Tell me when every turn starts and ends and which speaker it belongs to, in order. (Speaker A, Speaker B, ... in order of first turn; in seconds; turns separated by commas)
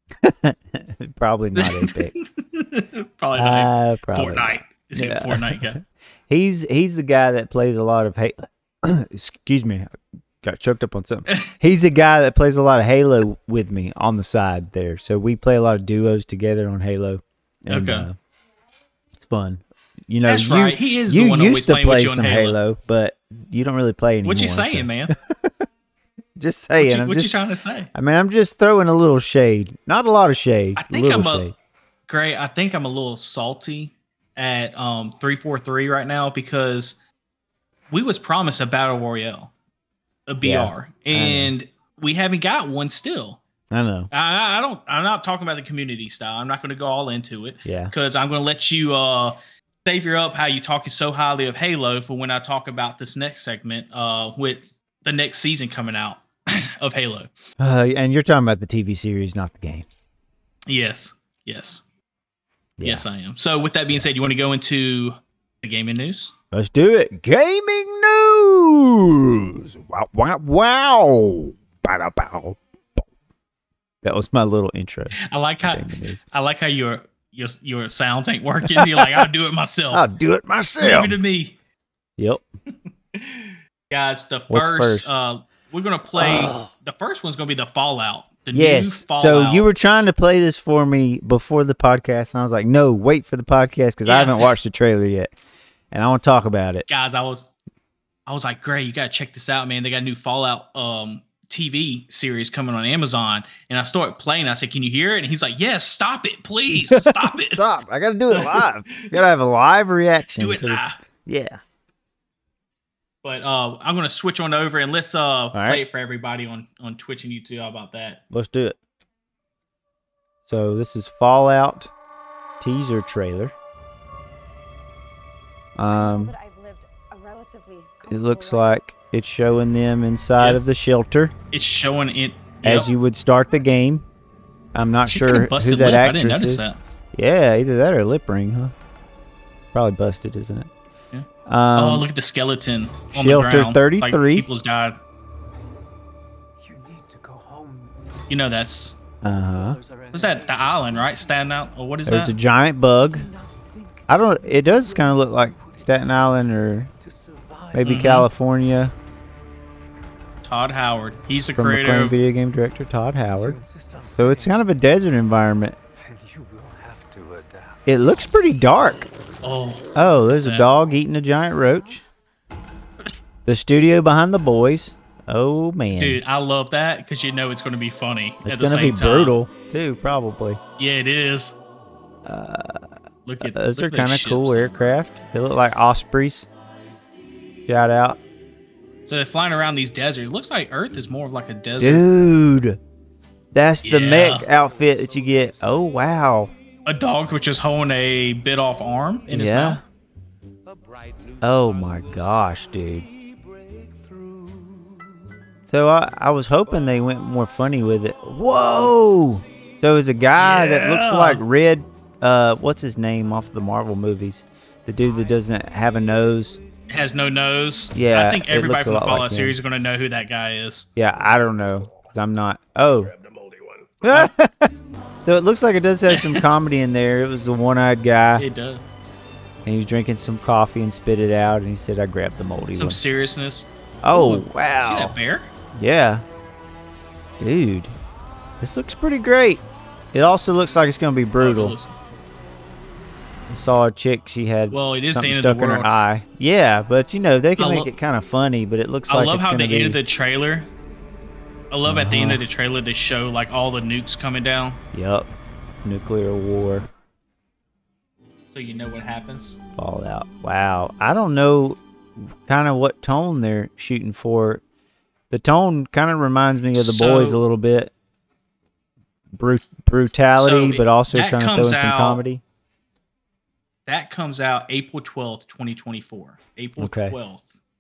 Speaker A: 0.2-2.1, Speaker B: 1.6-5.8, Speaker A: 3.4-9.9, Speaker A: 10.4-18.1, Speaker B: 17.7-18.1, Speaker A: 19.2-25.5, Speaker B: 20.2-22.6, Speaker B: 24.2-25.1, Speaker A: 26.4-27.4, Speaker B: 26.8-27.9, Speaker A: 27.9-31.5, Speaker B: 30.8-31.5, Speaker B: 32.1-37.0, Speaker B: 37.9-39.5, Speaker B: 40.3-43.4, Speaker A: 40.4-41.5, Speaker A: 43.7-44.1, Speaker B: 44.1-57.3, Speaker A: 47.6-47.9, Speaker A: 57.6-59.9, Speaker B: 60.7-61.8, Speaker A: 62.8-63.0, Speaker B: 62.8-66.3, Speaker A: 66.5-73.0, Speaker A: 74.0-76.2, Speaker B: 75.2-80.0, Speaker A: 78.8-79.2, Speaker A: 79.9-81.1, Speaker B: 80.8-81.6, Speaker A: 82.2-82.4, Speaker B: 83.1-89.7, Speaker A: 84.5-85.1, Speaker A: 86.2-86.7, Speaker A: 88.5-95.3, Speaker B: 94.0-94.5, Speaker A: 95.9-96.8, Speaker B: 96.9-97.5, Speaker B: 98.3-107.6, Speaker A: 106.7-111.6, Speaker B: 108.3-109.2, Speaker B: 110.4-111.0, Speaker B: 113.2-118.2, Speaker A: 115.5-115.8, Speaker A: 118.3-118.8, Speaker A: 120.5-121.9, Speaker A: 122.6-123.5, Speaker A: 125.8-126.3, Speaker C: 125.9-128.8, Speaker A: 128.1-131.3, Speaker B: 131.5-132.9, Speaker A: 132.6-134.0, Speaker A: 134.7-138.7, Speaker B: 135.1-136.8, Speaker A: 139.7-140.7, Speaker B: 141.1-145.0, Speaker A: 141.5-142.1, Speaker A: 143.1-144.4, Speaker D: 146.6-148.3, Speaker B: 148.3-148.9, Speaker A: 149.2-149.8, Speaker D: 149.3-151.5, Speaker B: 150.1-152.3, Speaker A: 152.1-153.3, Speaker D: 153.1-158.2, Speaker A: 154.1-156.9, Speaker A: 157.7-158.9, Speaker B: 157.8-158.3, Speaker B: 160.4-162.2, Speaker A: 161.6-163.6, Speaker D: 163.3-164.6, Speaker A: 164.2-165.8, Speaker D: 165.9-167.8, Speaker A: 167.8-169.1, Speaker B: 169.4-169.9, Speaker A: 169.9-172.0, Speaker A: 173.4-176.2, Speaker B: 176.0-179.3, Speaker A: 178.4-180.6, Speaker B: 180.8-181.6, Speaker A: 182.2-182.8, Speaker B: 183.2-184.7, Speaker A: 183.4-186.5, Speaker A: 187.7-188.2, Speaker B: 189.1-192.0, Speaker A: 191.8-192.8, Speaker A: 193.5-196.5, Speaker B: 193.8-194.4, Speaker D: 194.2-196.0, Speaker B: 196.8-199.8, Speaker A: 199.3-199.8, Speaker D: 200.6-205.4, Speaker A: 201.4-203.1, Speaker A: 205.7-216.6, Speaker D: 206.6-207.1, Speaker D: 207.8-210.1, Speaker B: 210.4-211.4, Speaker D: 215.0-216.7, Speaker B: 216.9-220.9, Speaker A: 217.9-219.6, Speaker A: 220.9-223.1, Speaker D: 223.2-223.9, Speaker A: 224.0-224.7, Speaker A: 225.2-228.4, Speaker B: 226.1-226.4, Speaker B: 228.4-228.8, Speaker A: 229.6-233.0, Speaker B: 232.8-235.5, Speaker A: 234.0-235.2, Speaker A: 235.8-236.2, Speaker A: 237.4-237.9, Speaker A: 238.6-239.6, Speaker A: 240.1-241.8, Speaker B: 241.4-241.9, Speaker A: 243.5-250.0, Speaker B: 244.7-245.9, Speaker B: 247.6-247.9, Speaker B: 249.1-250.7, Speaker B: 251.7-254.8, Speaker A: 251.8-252.4, Speaker A: 254.9-255.3, Speaker A: 255.8-256.9, Speaker B: 258.5-259.6, Speaker A: 259.8-264.6, Speaker A: 265.3-267.9, Speaker B: 266.8-267.4, Speaker A: 269.3-272.4, Speaker B: 270.4-272.2, Speaker B: 273.9-277.4, Speaker A: 276.8-277.1